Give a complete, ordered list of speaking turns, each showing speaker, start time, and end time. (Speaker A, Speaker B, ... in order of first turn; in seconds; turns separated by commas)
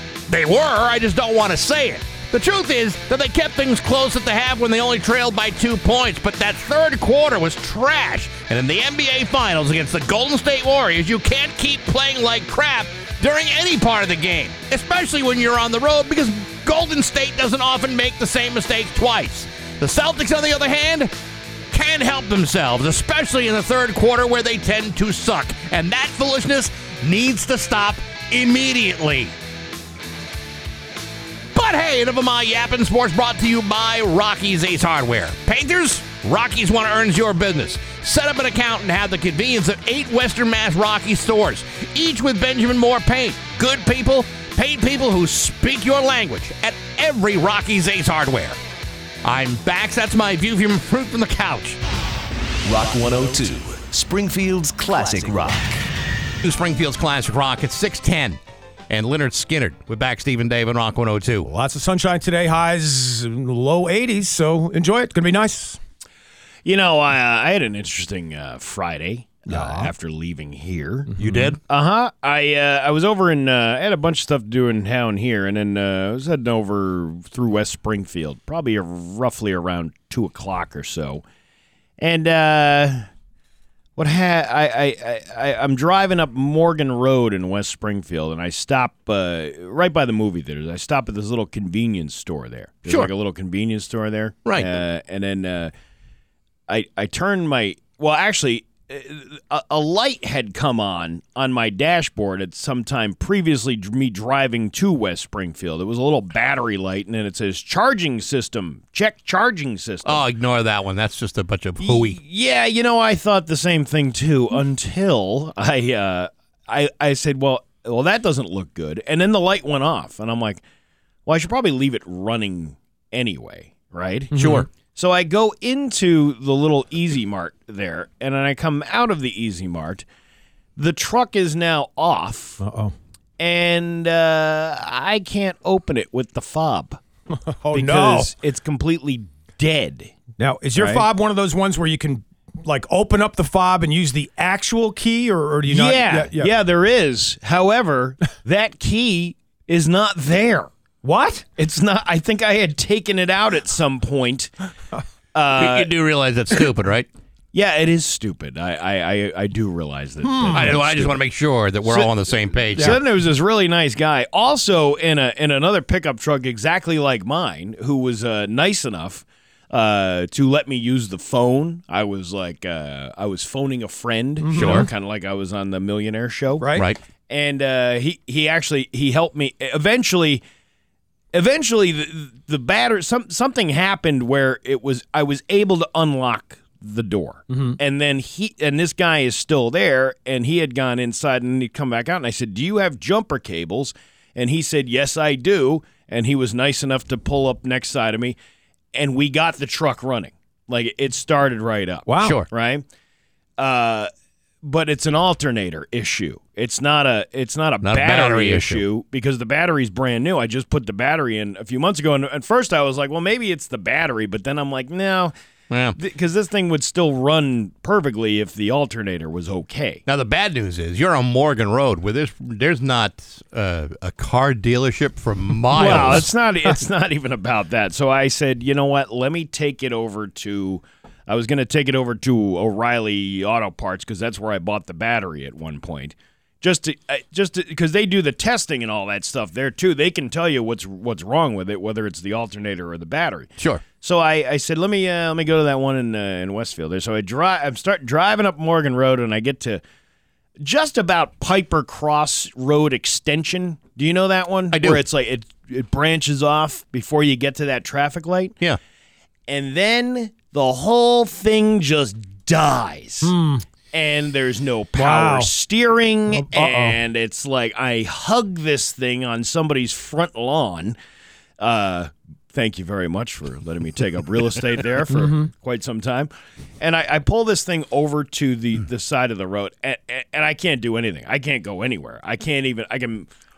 Speaker A: 0.3-21.1, Speaker A: 21.7-29.3, Speaker A: 31.5-48.6, Speaker A: 49.2-51.8, Speaker B: 53.3-55.4, Speaker A: 56.4-58.4, Speaker A: 58.9-61.5, Speaker C: 61.5-65.8, Speaker D: 66.7-71.1, Speaker C: 69.5-69.9, Speaker C: 71.2-71.6, Speaker A: 71.2-71.6, Speaker D: 71.7-81.2, Speaker D: 82.0-83.1, Speaker D: 84.0-95.7, Speaker A: 94.5-94.8, Speaker D: 96.7-110.2, Speaker A: 110.0-112.2, Speaker D: 111.8-120.6, Speaker D: 121.3-124.4, Speaker C: 124.3-124.7, Speaker A: 124.3-124.7, Speaker D: 124.9-130.1, Speaker D: 130.8-132.6, Speaker C: 132.6-132.9, Speaker D: 133.4-137.0, Speaker C: 137.4-138.3, Speaker D: 137.7-140.2, Speaker C: 140.4-146.5, Speaker D: 140.8-141.1, Speaker D: 145.7-150.7, Speaker C: 151.0-151.5, Speaker D: 151.6-154.5, Speaker D: 155.3-155.9, Speaker A: 155.6-157.1, Speaker D: 157.5-161.2, Speaker C: 160.2-160.8, Speaker A: 160.5-163.0, Speaker D: 161.9-162.1, Speaker D: 162.7-176.7, Speaker C: 162.8-163.0, Speaker C: 174.4-174.9, Speaker A: 174.5-174.9, Speaker C: 176.6-176.9, Speaker D: 177.3-180.4, Speaker D: 181.3-198.4, Speaker C: 187.5-187.8, Speaker D: 198.9-202.8, Speaker C: 202.1-202.4, Speaker A: 202.2-202.5, Speaker D: 203.6-204.1, Speaker D: 204.6-215.3, Speaker A: 207.8-208.8, Speaker A: 215.7-216.0, Speaker D: 215.9-220.0, Speaker A: 220.1-226.3, Speaker D: 225.8-249.8, Speaker C: 225.8-226.2, Speaker D: 250.6-258.6, Speaker A: 254.7-255.0, Speaker D: 259.5-263.4, Speaker C: 263.2-263.6, Speaker D: 263.9-271.0, Speaker C: 265.0-265.5, Speaker C: 266.3-267.0, Speaker D: 271.6-283.3, Speaker C: 275.1-275.5